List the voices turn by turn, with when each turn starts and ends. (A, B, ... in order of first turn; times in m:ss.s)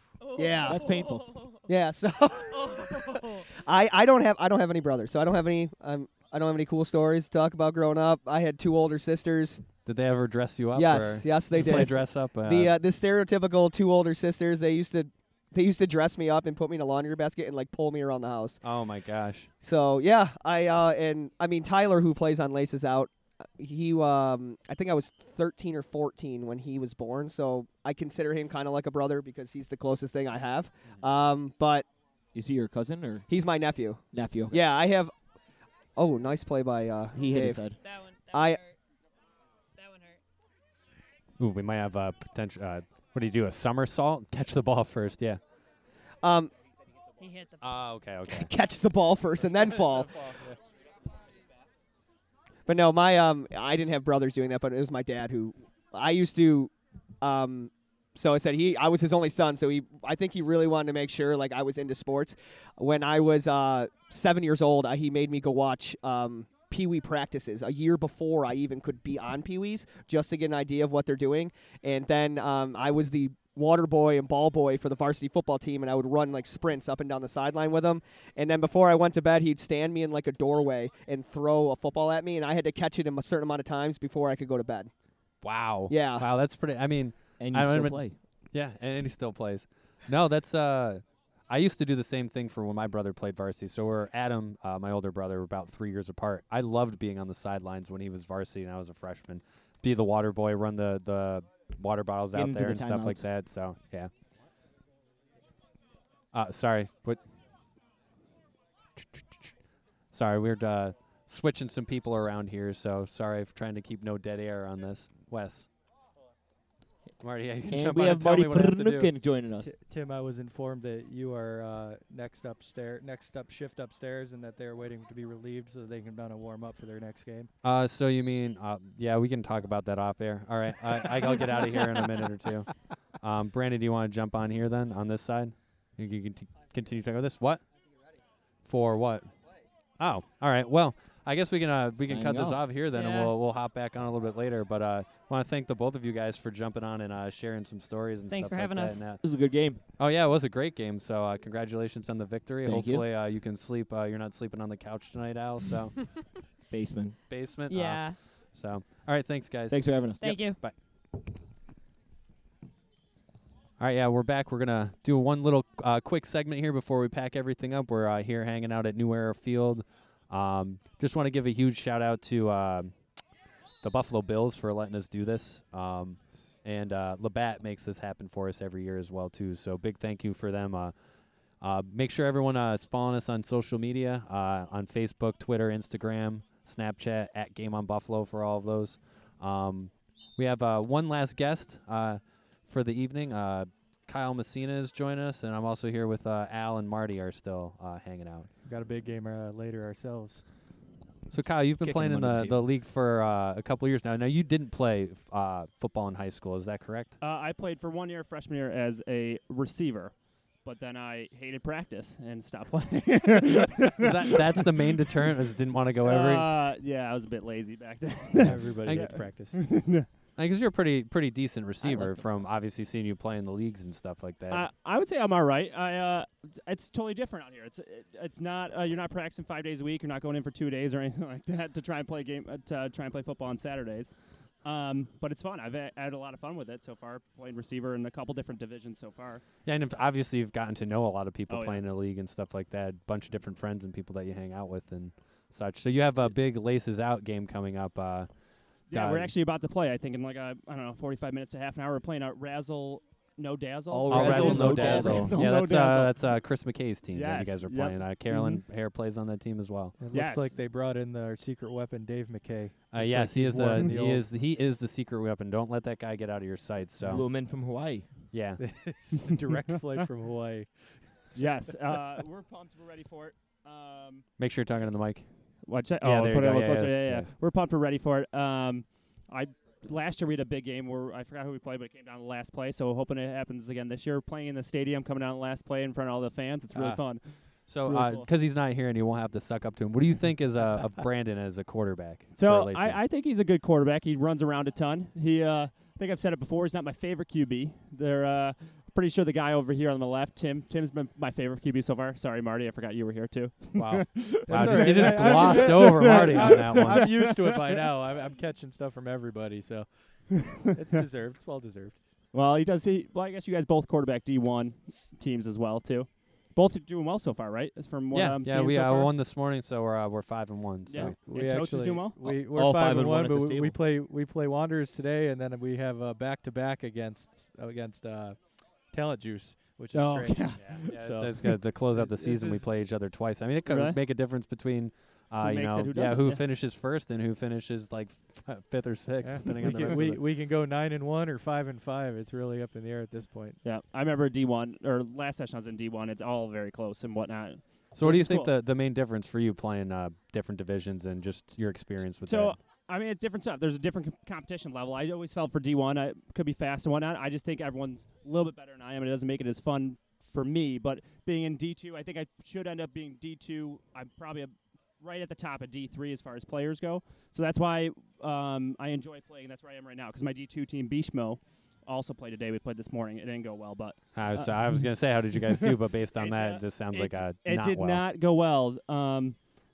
0:00.2-0:01.7 A
0:00.4-0:01.0 B
0:00.6-0:01.3 C
0:01.7-0:09.6 B
0:02.6-0:03.4 A
0:09.9-0:12.7 D
0:10.8-0:18.6 B
0:18.6-0:19.5 D
0:19.6-0:31.9 B
0:32.3-0:33.3 C
0:33.3-0:35.1 B
0:34.1-0:34.6 C
0:36.0-0:37.6 B
0:37.1-0:37.8 C
0:37.8-0:38.8 A
0:38.3-0:38.6 B
0:39.8-0:40.2 A
0:41.4-0:45.4 D
0:46.2-0:46.5 B
0:47.2-0:47.8 A
0:47.6-0:48.5 D
0:48.3-0:50.3 B
0:52.7-1:24.9 B
1:25.4-1:44.1 D
1:25.9-1:26.2 B
1:27.4-1:28.2 C
1:42.3-1:43.3 C
1:46.3-1:47.2 D
1:49.0-1:49.6 D
1:50.1-1:55.7 D
1:57.2-1:59.1 D
1:57.6-1:59.7 C
1:59.6-2:07.5 E
2:07.6-2:17.6 D
2:18.7-2:19.3 D
2:20.0-2:29.2 D
2:22.0-2:22.6 C
2:22.9-2:23.3 A
2:28.3-2:29.1 A
2:29.2-2:29.8 C
2:30.0-2:36.1 D
2:32.6-2:33.1 C
2:36.7-2:37.2 C
2:37.3-2:40.7 D
2:37.7-2:38.2 A
2:39.7-2:40.5 C
2:40.2-2:40.6 A
2:43.8-2:52.9 D
2:53.8-3:00.9 D
3:01.6-3:18.5 D
3:18.6-3:20.4 E
3:21.3-3:27.1 D
3:21.8-3:22.6 C
3:27.2-3:30.1 F
3:30.6-3:35.0 F
3:34.0-3:36.5 D
3:36.0-3:40.1 F
3:38.4-3:39.6 E
3:38.4-3:39.1 D
3:40.4-3:44.7 D
3:41.8-3:42.2 C
3:44.5-3:59.4 F
3:59.6-4:08.3 D
4:01.5-4:01.8 F
4:08.9-4:16.3 F
4:08.9-4:09.3 D
4:13.9-4:15.4 C
4:14.1-4:20.0 D
4:17.1-4:18.0 F
4:20.0-4:24.2 E
4:20.1-4:20.5 F
4:22.9-4:27.3 D
4:27.0-4:28.1 C
4:28.3-4:28.6 D
4:28.6-4:30.7 E
4:31.4-4:34.3 F
4:34.4-4:35.3 D
4:35.6-4:48.3 F
4:36.0-4:37.3 D
4:46.8-4:47.0 E
4:47.7-4:53.0 D
4:52.4-5:07.9 F
5:03.8-5:09.9 E
5:04.5-5:07.3 D
5:10.7-5:12.0 E
5:12.3-5:19.1 F
5:18.1-5:21.2 D
5:20.9-5:22.2 F
5:21.0-5:28.4 E
5:22.2-5:23.8 C
5:28.9-5:32.7 E
5:29.9-5:31.0 F
5:30.6-5:40.2 D
5:33.6-5:34.0 F
5:35.4-5:36.5 F
5:39.2-5:43.6 E
5:43.6-5:48.6 F
5:48.0-5:52.6 D
5:52.2-6:14.9 F
6:14.1-6:18.0 D
6:15.6-6:19.4 F